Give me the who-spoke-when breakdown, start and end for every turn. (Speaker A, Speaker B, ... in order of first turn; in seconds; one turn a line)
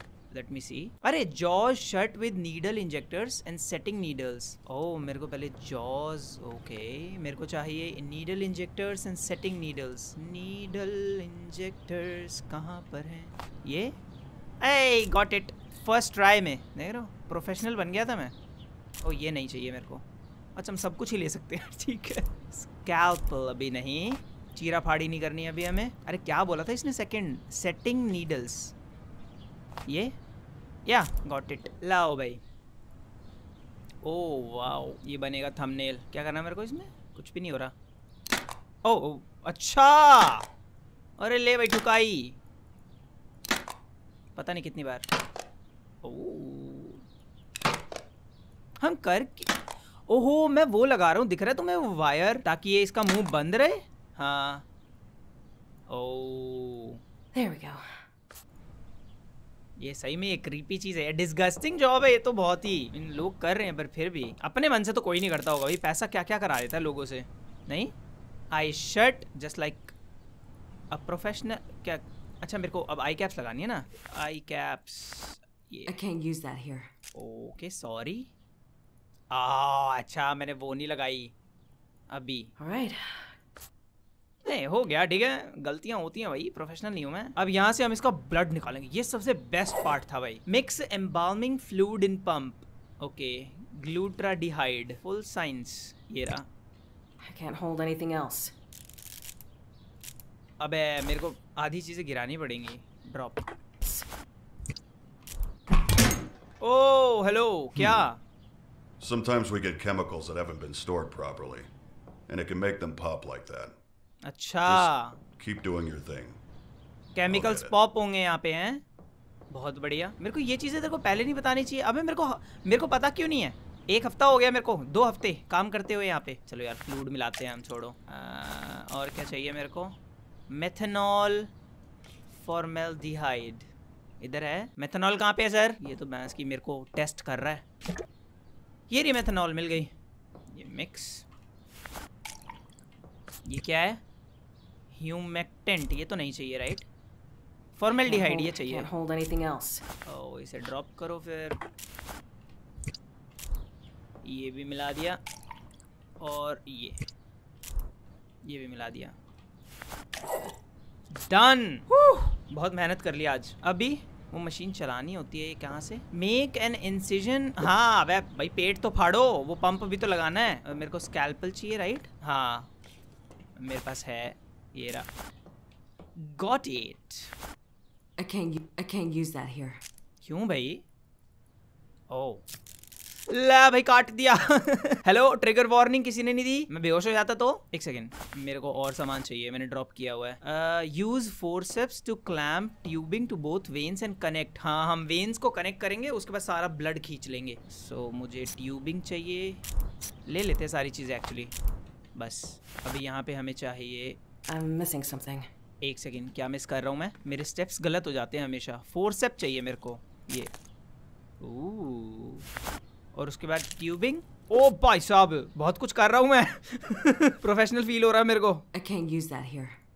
Speaker A: 0.3-14.0
Speaker A: 14.6-18.3
Speaker A: 19.0-20.0
Speaker A: 20.6-28.7
Speaker A: 29.9-30.1
Speaker A: 30.9-32.4
Speaker A: 34.0-37.7
Speaker A: 38.8-40.5
Speaker A: 41.2-42.4
Speaker A: 44.4-45.1
Speaker A: 46.0-47.0
Speaker A: 48.8-49.5
Speaker A: 50.1-54.6
Speaker A: 55.9-57.0
Speaker B: 57.3-58.0
Speaker A: 59.8-67.9
Speaker A: 68.5-69.9
Speaker A: 70.9-75.9
Speaker B: 75.9-76.9
Speaker A: 77.2-78.3
Speaker A: 79.3-81.3
Speaker A: 82.1-82.5
Speaker B: 82.6-83.3
Speaker A: 84.5-96.5
Speaker B: 97.2-98.5
Speaker A: 100.6-103.5
Speaker A: 106.6-108.2
Speaker C: 109.0-111.7
Speaker C: 112.3-113.8
Speaker A: 114.2-115.2
Speaker C: 114.6-116.4
Speaker A: 117.2-118.8
Speaker C: 117.3-117.7
Speaker A: 119.5-130.0
Speaker A: 130.5-131.5
Speaker A: 132.3-133.7
Speaker A: 134.2-137.6
Speaker A: 138.9-139.9
Speaker A: 140.5-141.2
Speaker A: 143.4-144.0
Speaker A: 144.9-146.9
Speaker A: 147.8-148.9
Speaker B: 148.1-149.8
Speaker A: 150.1-151.6
Speaker A: 154.2-155.2
Speaker A: 156.2-157.1
Speaker A: 158.4-159.2
Speaker A: 161.1-161.9
Speaker A: 162.4-172.7
Speaker A: 173.6-175.1
Speaker A: 176.2-177.3
Speaker B: 178.2-179.8
Speaker A: 180.2-180.8
Speaker A: 182.1-182.4
Speaker A: 183.3-199.6
Speaker A: 200.3-201.5
Speaker A: 202.2-204.2
Speaker B: 204.5-205.5
Speaker A: 205.8-210.5
Speaker A: 211.4-212.4
Speaker A: 213.2-218.6
Speaker B: 218.7-219.8